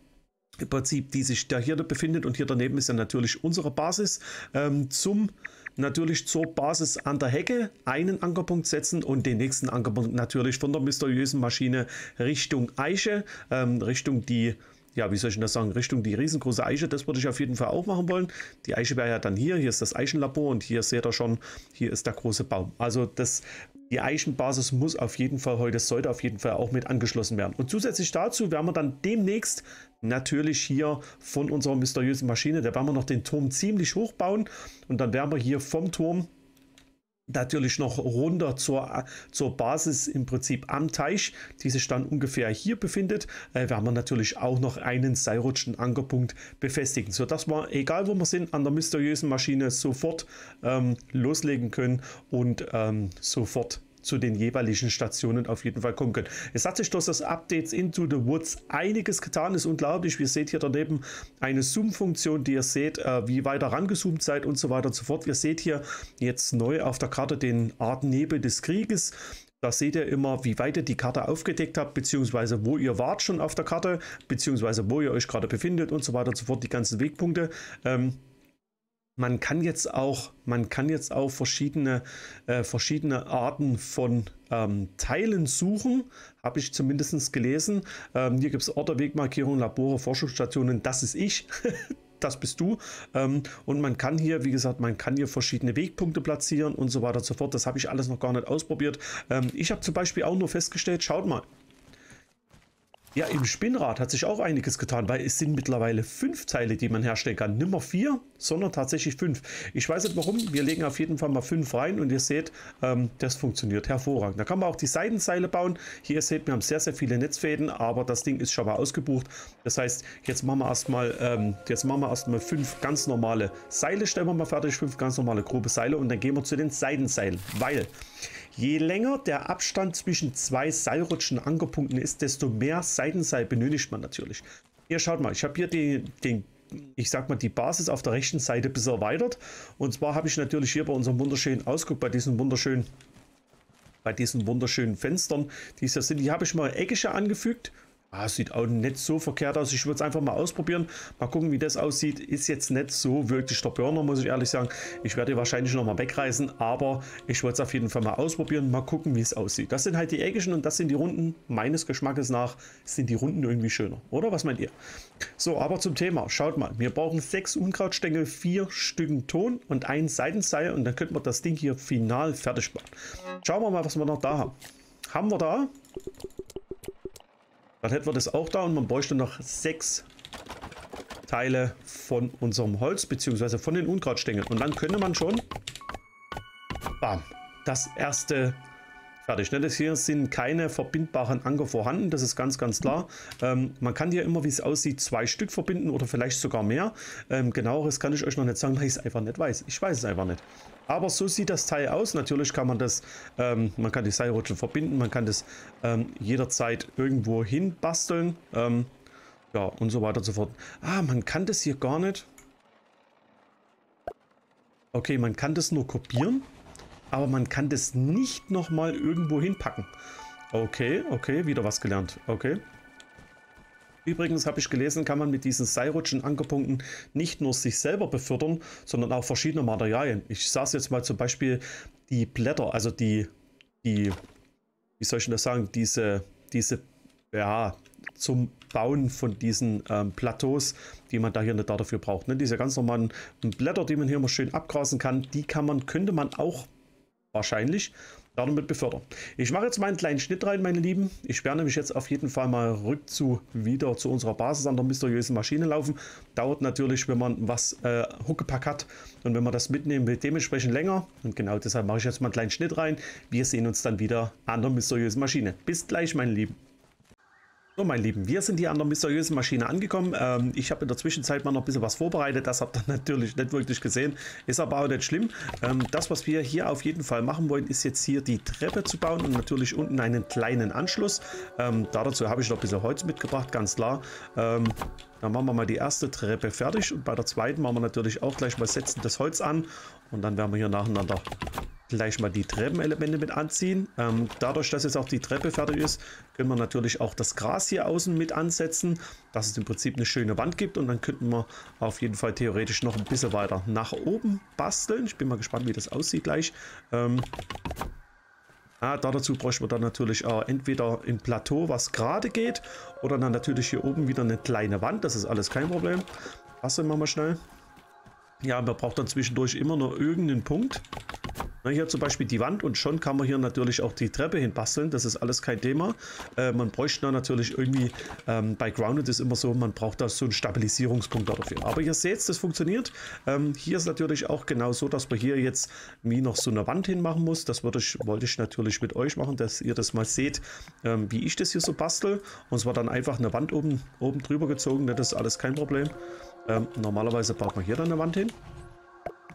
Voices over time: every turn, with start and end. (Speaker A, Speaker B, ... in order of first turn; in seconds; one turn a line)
Speaker A: 0.6-36.3
Speaker A: 37.3-78.2
Speaker A: 79.2-101.5
Speaker A: 103.2-127.9
Speaker A: 128.5-142.9
Speaker A: 144.0-164.7
Speaker A: 165.4-174.6
Speaker A: 175.1-175.7
Speaker A: 177.8-180.1
Speaker A: 181.3-185.4
Speaker A: 187.0-188.6
Speaker A: 189.2-208.9
Speaker A: 209.5-212.3
Speaker A: 214.9-216.5
Speaker A: 217.1-219.9
Speaker A: 220.5-222.6
Speaker A: 224.1-233.3
Speaker A: 233.8-234.2
Speaker A: 235.0-246.7
Speaker A: 247.3-266.6
Speaker A: 267.8-291.3
Speaker A: 291.9-307.3
Speaker A: 308.8-316.1
Speaker A: 316.6-317.4
Speaker A: 318.4-320.8
Speaker A: 321.6-345.9
Speaker A: 346.5-348.4